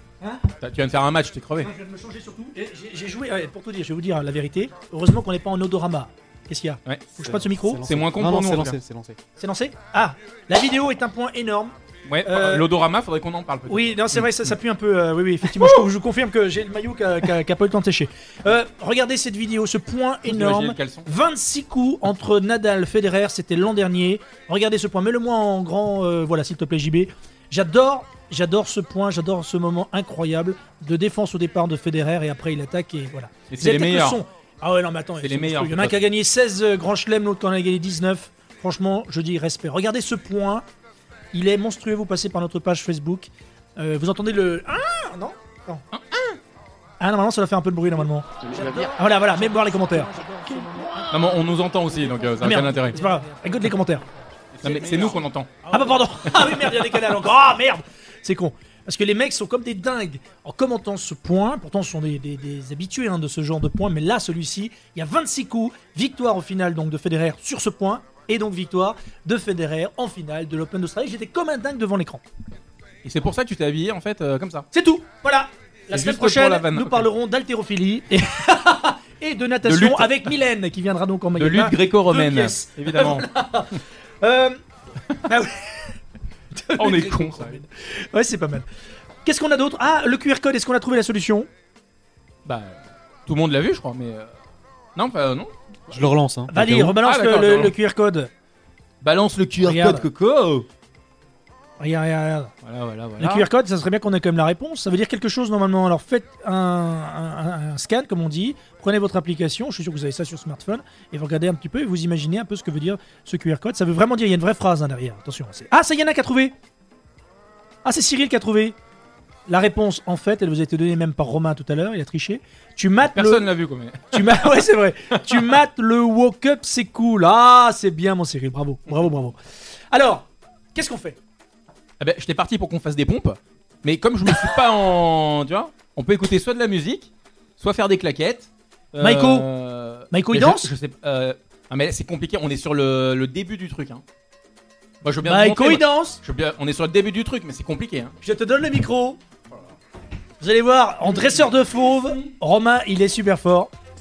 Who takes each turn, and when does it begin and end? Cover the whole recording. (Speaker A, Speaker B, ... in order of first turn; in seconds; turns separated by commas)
Speaker A: 0.6-1.7, Speaker B: 1.6-7.8, Speaker C: 7.2-9.2, Speaker A: 7.8-8.8, Speaker B: 9.4-12.7, Speaker A: 12.1-14.5, Speaker B: 13.7-40.7, Speaker A: 15.6-15.8, Speaker A: 20.3-21.1, Speaker A: 33.5-34.2, Speaker A: 35.2-36.0, Speaker B: 41.3-45.8, Speaker A: 45.9-46.4, Speaker B: 47.0-54.1, Speaker A: 48.4-50.1, Speaker A: 51.1-53.0, Speaker A: 54.6-56.8, Speaker B: 54.6-72.2, Speaker A: 73.0-74.7, Speaker B: 74.7-84.6, Speaker A: 75.9-77.1, Speaker A: 79.6-80.3, Speaker A: 81.4-83.3, Speaker B: 85.2-85.9, Speaker B: 86.5-88.6, Speaker A: 86.8-87.6, Speaker B: 89.2-91.5, Speaker A: 92.5-94.3, Speaker A: 95.0-96.1, Speaker C: 95.9-97.0, Speaker B: 96.5-98.3, Speaker A: 97.0-97.7, Speaker A: 99.0-100.7, Speaker B: 99.6-100.1, Speaker B: 101.8-102.5, Speaker A: 102.6-103.5, Speaker B: 103.2-116.5, Speaker B: 117.8-118.8, Speaker B: 119.5-123.5, Speaker A: 123.0-124.5, Speaker B: 124.1-129.4, Speaker B: 129.9-131.2, Speaker A: 132.0-144.0, Speaker B: 139.0-139.5, Speaker B: 140.1-140.7, Speaker A: 145.0-148.1, Speaker B: 145.2-146.2, Speaker B: 148.2-149.2, Speaker B: 150.4-153.7, Speaker A: 151.0-152.3